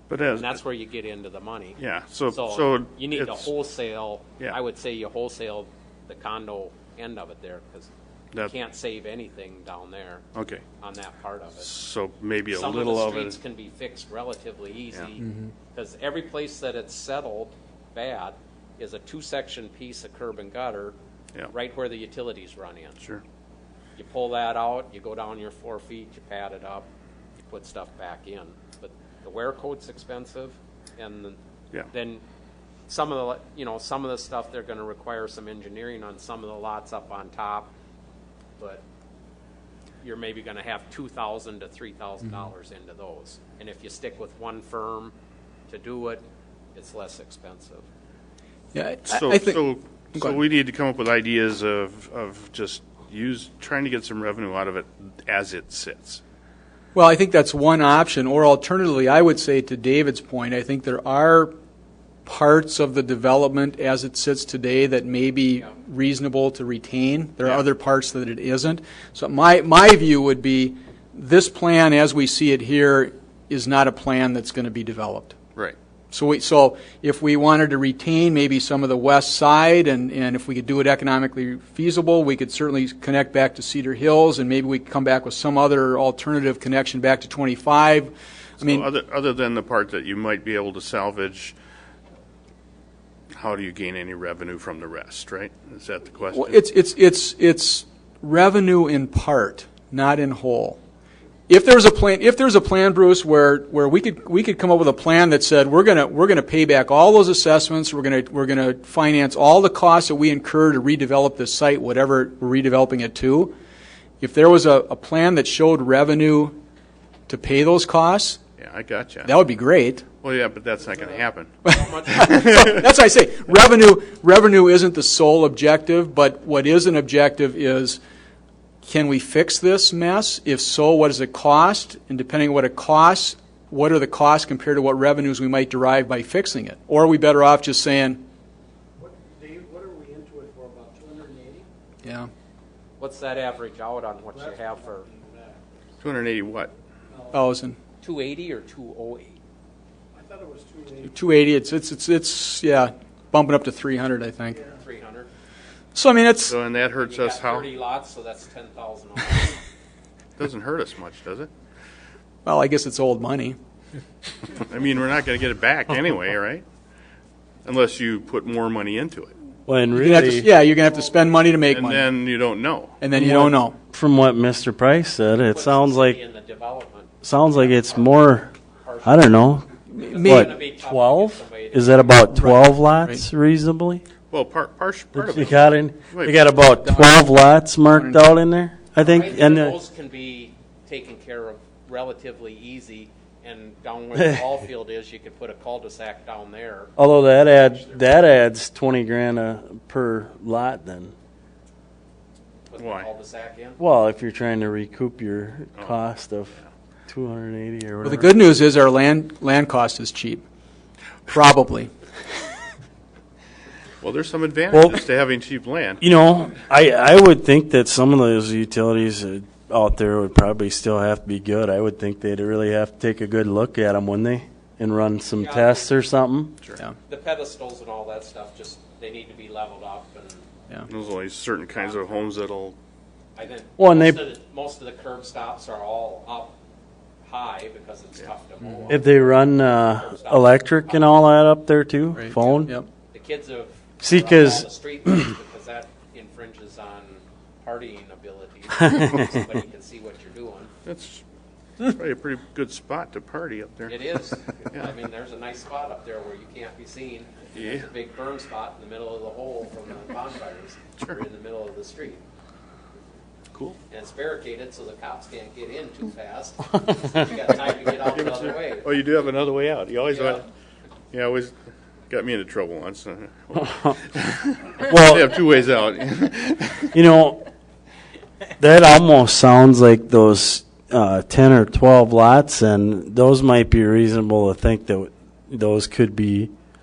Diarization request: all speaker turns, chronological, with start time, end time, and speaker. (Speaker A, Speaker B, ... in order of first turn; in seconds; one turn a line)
Speaker A: 0.1-0.6
Speaker B: 0.3-10.2
Speaker A: 1.8-3.5
Speaker A: 10.3-10.6
Speaker B: 10.8-11.7
Speaker A: 11.6-13.4
Speaker B: 12.5-20.9
Speaker B: 21.5-23.0
Speaker B: 24.0-26.9
Speaker B: 27.5-31.4
Speaker B: 31.9-32.2
Speaker B: 32.9-37.7
Speaker B: 38.6-38.8
Speaker B: 40.0-45.1
Speaker B: 45.7-47.9
Speaker C: 48.7-49.6
Speaker A: 49.1-56.2
Speaker C: 57.0-61.5
Speaker C: 62.3-75.3
Speaker C: 76.1-88.9
Speaker A: 88.6-91.6
Speaker A: 93.4-96.6
Speaker C: 96.3-100.8
Speaker C: 101.5-113.5
Speaker C: 114.2-116.6
Speaker C: 117.3-118.4
Speaker A: 118.6-119.3
Speaker C: 119.2-120.0
Speaker A: 120.2-121.5
Speaker C: 121.7-128.0
Speaker B: 121.7-122.7
Speaker A: 122.2-122.8
Speaker C: 128.8-138.2
Speaker D: 139.0-141.7
Speaker C: 142.0-142.3
Speaker B: 143.0-145.1
Speaker D: 145.1-145.6
Speaker A: 146.0-146.7
Speaker C: 147.3-147.8
Speaker B: 148.0-149.4
Speaker D: 150.2-151.1
Speaker C: 151.1-154.6
Speaker B: 154.8-155.3
Speaker C: 155.9-156.5
Speaker A: 156.5-157.7
Speaker B: 157.0-159.6
Speaker A: 160.4-161.5
Speaker C: 162.4-163.6
Speaker A: 164.6-166.6
Speaker A: 167.7-169.3
Speaker E: 169.7-170.5
Speaker C: 170.0-172.1
Speaker A: 171.7-173.3
Speaker C: 173.0-173.8
Speaker E: 173.2-176.2
Speaker B: 175.5-182.2
Speaker E: 177.2-178.5
Speaker E: 179.0-179.7
Speaker C: 180.0-180.5
Speaker E: 180.2-184.1
Speaker C: 182.3-183.2
Speaker A: 184.3-186.4
Speaker E: 185.2-189.8
Speaker C: 186.8-187.2
Speaker C: 187.9-188.2
Speaker B: 189.0-196.9
Speaker E: 194.2-194.4
Speaker E: 197.0-201.1
Speaker B: 197.6-198.0
Speaker B: 202.7-203.8
Speaker A: 202.8-203.1
Speaker E: 203.8-206.5
Speaker E: 207.1-208.4
Speaker C: 208.0-210.4
Speaker C: 211.3-211.9
Speaker A: 214.0-216.0
Speaker E: 214.7-215.1
Speaker E: 216.0-226.6
Speaker B: 225.4-225.9
Speaker B: 227.1-230.4
Speaker A: 230.9-232.8
Speaker B: 231.8-232.2
Speaker B: 233.3-236.6
Speaker E: 233.8-234.2
Speaker B: 237.2-239.3
Speaker E: 238.9-242.7
Speaker B: 239.8-241.2
Speaker C: 242.2-242.9
Speaker B: 242.3-250.7
Speaker E: 244.0-245.3
Speaker E: 248.9-249.2
Speaker A: 250.8-251.2
Speaker A: 251.8-254.1
Speaker B: 253.9-262.2
Speaker A: 257.6-257.9
Speaker B: 263.9-268.9
Speaker A: 268.0-270.4
Speaker B: 270.1-270.4
Speaker A: 271.1-271.5
Speaker A: 272.1-276.9
Speaker E: 274.8-275.3
Speaker E: 276.9-277.4
Speaker E: 278.6-286.5